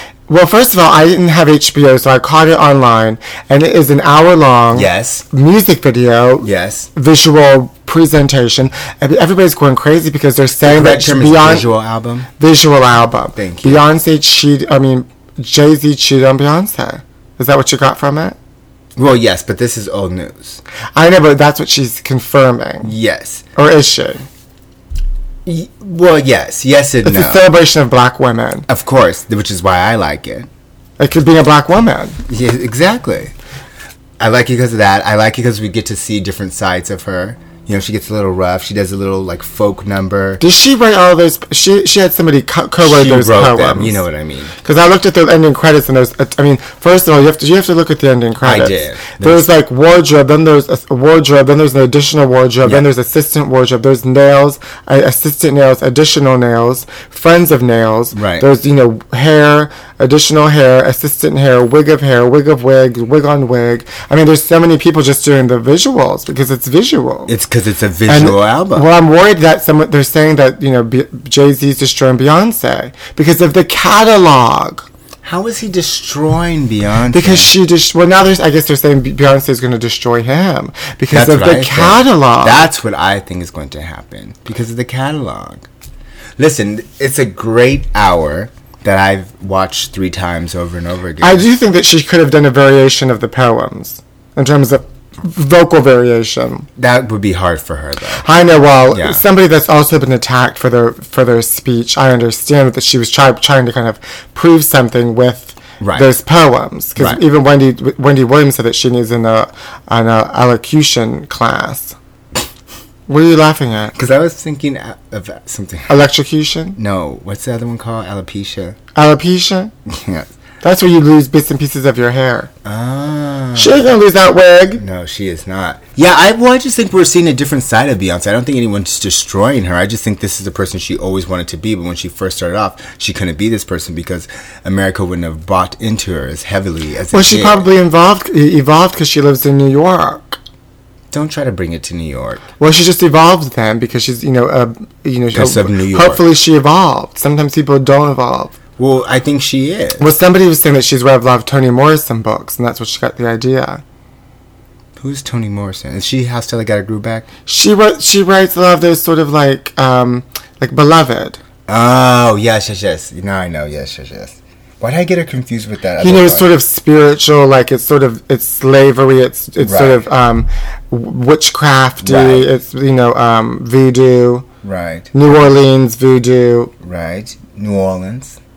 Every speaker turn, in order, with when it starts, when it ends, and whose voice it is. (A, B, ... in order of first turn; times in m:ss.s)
0:00.3-0:11.7 A
0:04.7-0:05.3 B
0:06.4-0:06.9 B
0:10.6-0:12.3 B
0:12.4-0:18.4 A
0:13.4-0:13.8 B
0:19.0-0:20.6 B
0:21.0-0:23.0 A
0:22.8-0:23.5 B
0:23.6-0:24.2 A
0:25.5-0:27.4 B
0:27.0-0:28.7 A
0:28.7-0:30.5 B
0:31.0-0:32.2 A
0:32.3-0:33.3 B
0:34.2-0:40.4 B
0:40.4-0:44.0 A
0:42.8-0:44.5 B
0:44.6-1:07.3 A
0:48.4-0:49.5 B
0:58.1-0:58.5 B
1:07.3-1:08.9 B
1:08.1-1:14.9 A
1:15.2-1:17.5 B
1:17.1-1:22.7 A
1:21.1-1:25.7 B
1:26.4-1:31.4 B
1:31.2-1:36.7 A
1:36.8-1:38.3 B
1:38.2-1:52.0 A
1:38.9-1:39.2 B
1:45.8-1:46.1 B
1:53.1-1:53.9 A
1:54.0-1:56.1 B
1:55.9-1:56.8 A
1:56.8-1:58.8 B
1:59.0-1:59.7 A
1:59.9-2:00.3 B
2:00.6-2:02.5 A
2:02.6-2:03.9 B
2:03.6-2:04.8 A
2:04.8-2:17.7 B
2:17.1-2:20.4 A
2:21.1-2:22.4 B
2:22.6-2:28.6 A
2:25.3-2:26.2 B
2:28.8-2:30.1 B
2:30.0-2:33.8 A
2:35.0-2:37.3 B
2:37.5-2:41.4 A
2:41.7-2:46.6 B
2:46.0-2:54.5 A
2:49.6-2:50.1 B
2:52.0-2:52.5 B
2:54.6-2:55.1 B
2:55.1-2:56.7 A
2:56.8-2:58.4 B